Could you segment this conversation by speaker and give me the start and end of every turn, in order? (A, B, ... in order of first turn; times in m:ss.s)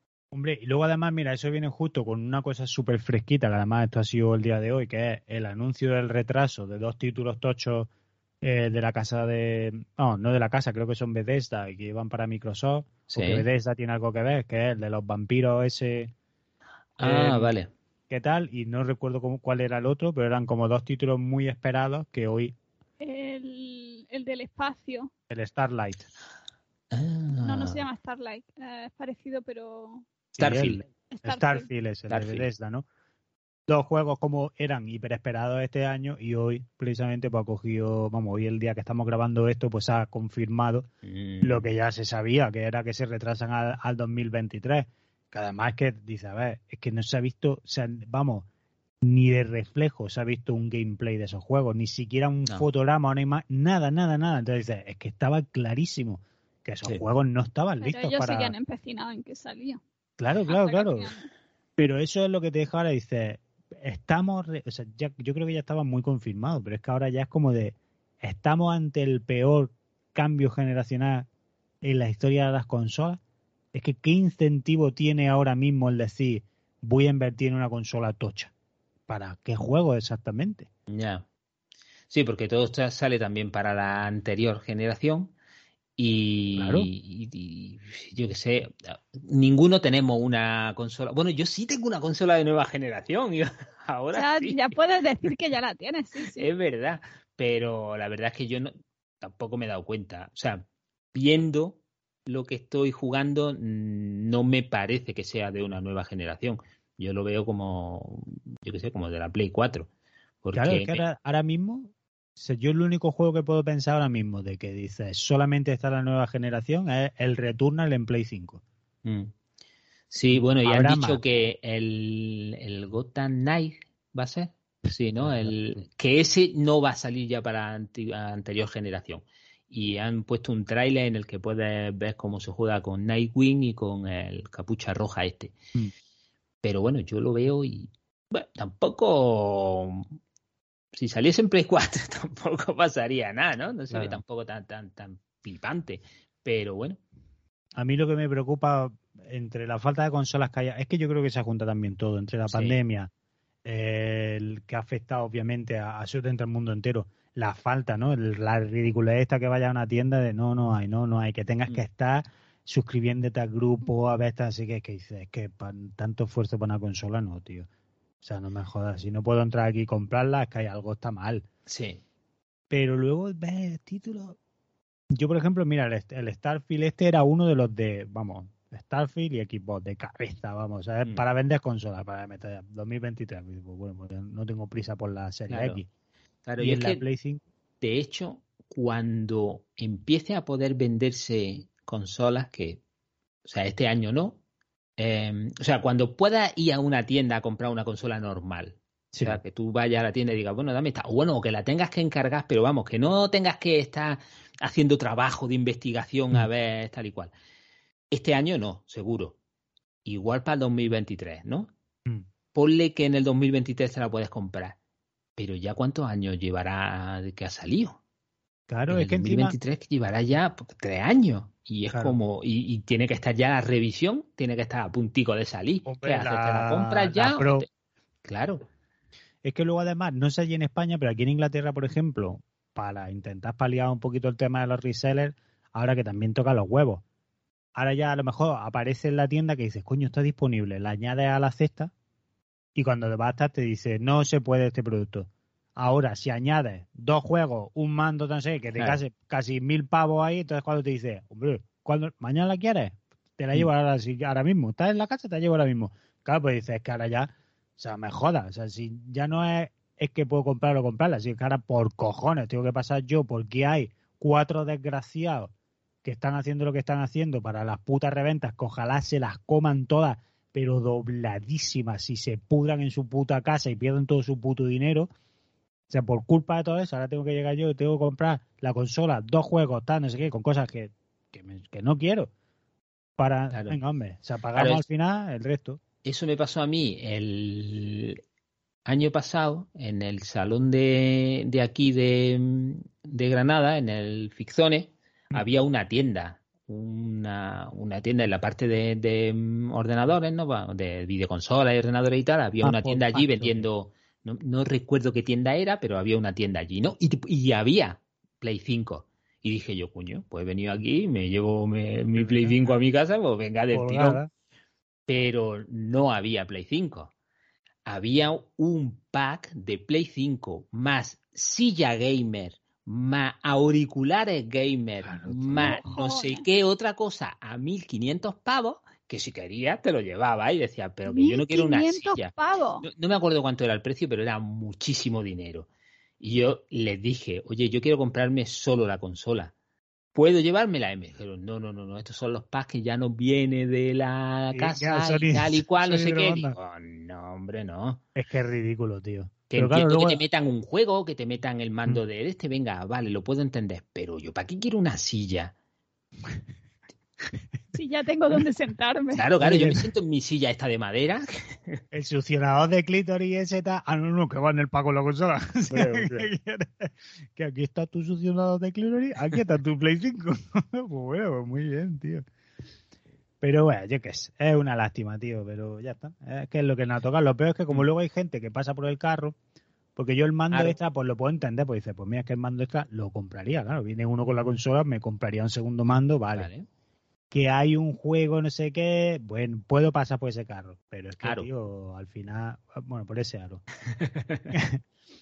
0:00.3-0:07.9 A
0:08.4-0:16.1 A
0:13.1-0:13.4 B
0:17.0-0:17.7 B
0:17.0-0:17.5 A
0:18.1-0:22.5 A
0:23.0-0:25.1 C
0:25.3-0:26.0 A
0:26.9-0:27.8 B
0:27.4-0:30.1 C
0:30.4-0:30.8 B
0:30.4-0:32.8 A
0:31.1-0:31.7 C
0:32.1-0:32.5 B
0:33.7-0:40.9 A
0:41.0-0:41.7 B
0:41.4-0:48.4 A
0:49.0-0:58.5 A
0:57.8-0:59.8 C
1:00.2-1:01.1 A
1:00.5-1:01.3 C
1:01.8-1:11.3 A
1:11.8-1:13.2 A
1:13.7-1:18.5 A
1:19.1-1:20.7 A
1:20.9-1:21.2 B
1:22.1-1:25.3 B
1:26.0-1:34.7 B
1:26.6-1:26.9 A
1:34.1-1:36.5 C
1:36.4-1:49.9 B
1:50.4-1:51.0 B
1:50.5-1:58.6 A
1:59.0-1:59.3 B
2:00.1-2:15.6 B
2:00.3-2:01.2 A
2:05.2-2:05.8 A
2:16.6-2:20.1 B
2:20.9-2:27.0 B
2:23.9-2:24.2 A
2:27.8-2:33.1 A
2:32.5-2:32.8 B
2:33.6-2:47.7 A
2:48.2-2:51.4 A
2:51.7-2:52.0 B
2:52.7-2:54.4 A
2:55.1-3:05.9 A
3:05.5-3:05.8 B
3:06.4-3:07.0 B
3:06.6-3:07.4 A
3:07.8-3:12.8 B
3:13.4-3:14.4 B
3:15.0-3:27.3 B
3:19.1-3:19.4 A
3:28.1-3:29.4 B
3:30.0-3:31.7 B
3:32.5-3:34.8 B
3:35.4-3:38.0 B
3:38.7-3:39.6 A
3:38.9-3:47.7 B
3:41.9-3:42.2 A
3:45.8-3:47.6 A
3:48.2-3:48.6 B
3:49.4-3:57.0 A
3:57.7-4:01.9 A
4:02.7-4:25.5 A
4:26.0-4:35.1 A
4:35.9-4:42.3 A
4:43.2-4:45.8 A
4:43.5-4:43.8 B
4:44.5-4:44.8 B
4:46.0-4:48.2 B
4:48.8-5:14.2 B
5:02.6-5:03.7 A
5:12.2-5:12.8 A
5:13.7-5:14.3 A
5:15.1-5:17.1 B
5:17.8-5:32.3 B
5:25.0-5:25.8 A
5:25.6-5:26.4 C
5:31.0-5:32.9 C
5:32.8-5:35.7 B
5:36.2-5:39.5 B
5:40.1-5:48.0 B
5:44.5-5:46.5 A
5:48.1-5:50.2 A
5:49.5-5:55.5 B
5:57.7-5:59.2 C
5:59.2-6:01.8 B
5:59.4-5:59.8 A
6:01.9-6:12.2 A
6:05.7-6:06.3 B
6:13.4-6:19.4 A
6:20.0-6:26.5 A
6:26.3-6:26.7 B
6:27.3-6:33.6 A
6:31.2-6:31.5 B
6:33.9-6:34.5 B
6:34.5-6:34.8 A